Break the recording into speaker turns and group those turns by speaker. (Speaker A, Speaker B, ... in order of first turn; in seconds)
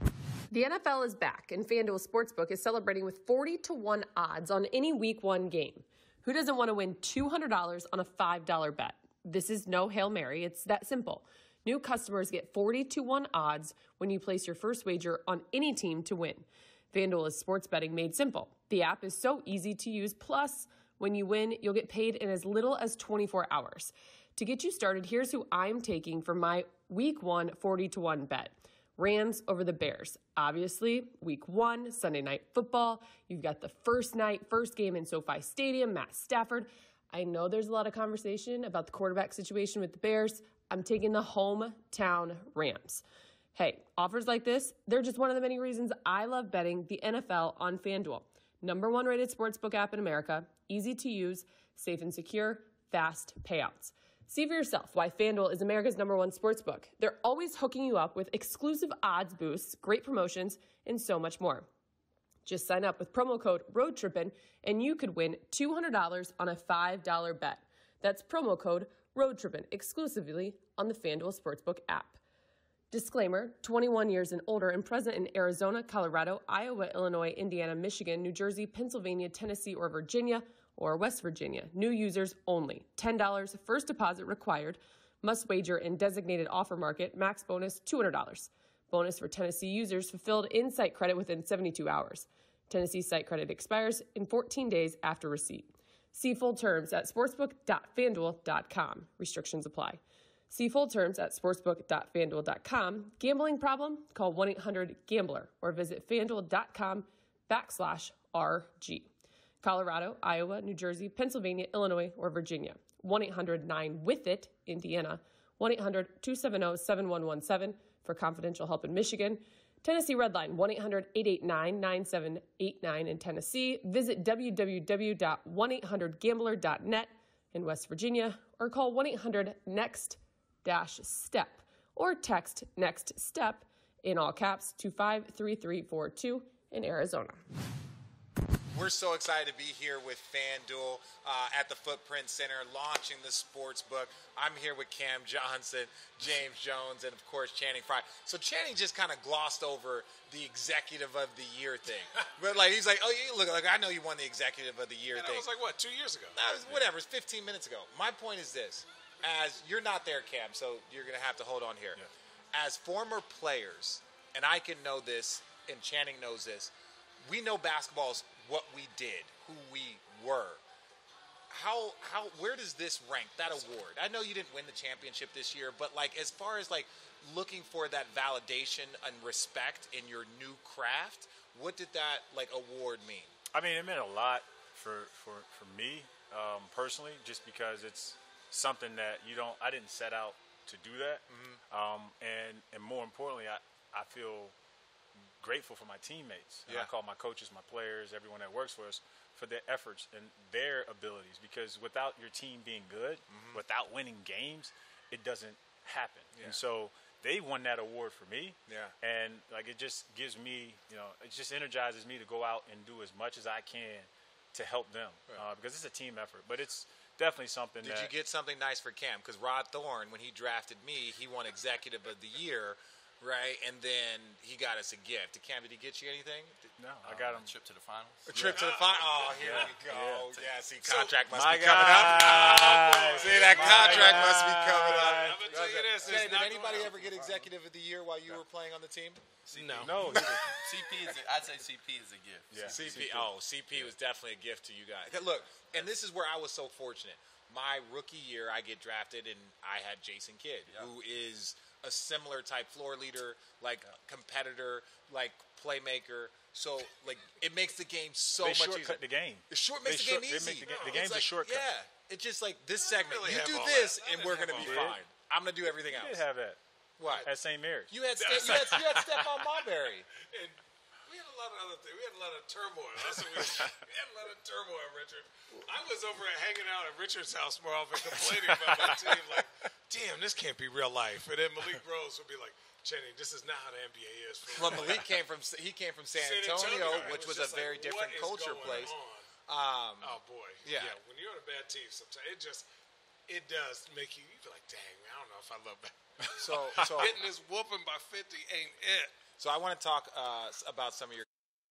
Speaker A: 0.5-43.0, 43.5-61.7, 62.5-72.2, 72.9-100.0, 100.5-109.1, 109.6-137.4
Speaker B: 138.7-155.5, 156.3-162.0, 162.5-166.7, 167.2-170.6, 171.5-183.3, 191.3-191.6, 196.7-196.9, 203.3-203.6, 206.3-206.6, 208.7-208.9, 217.8-226.7, 228.3-239.2, 240.1-240.8, 242.7-266.2, 267.0-267.3, 267.9-270.1, 284.6-288.9, 289.5-290.9, 296.4-297.1, 299.4-301.3
Speaker C: 155.1-156.4, 228.5-229.8, 230.8-231.2, 231.8-236.9, 239.5-239.9, 260.6-261.1, 262.8-264.9, 268.2-269.0, 270.2-285.0, 286.2-289.3, 290.0-292.7, 293.3-299.1
Speaker D: 183.5-194.5, 195.4-218.1, 226.8-227.5, 228.3-228.7, 229.4-230.3, 231.2-236.4, 239.7-240.6, 242.5-243.3, 258.4-261.7, 264.5-265.0, 265.9-266.6, 267.2-269.2, 273.2-273.8, 278.1-279.1, 286.8-287.1, 296.8-297.1
Speaker E: 227.0-228.3, 239.5-243.0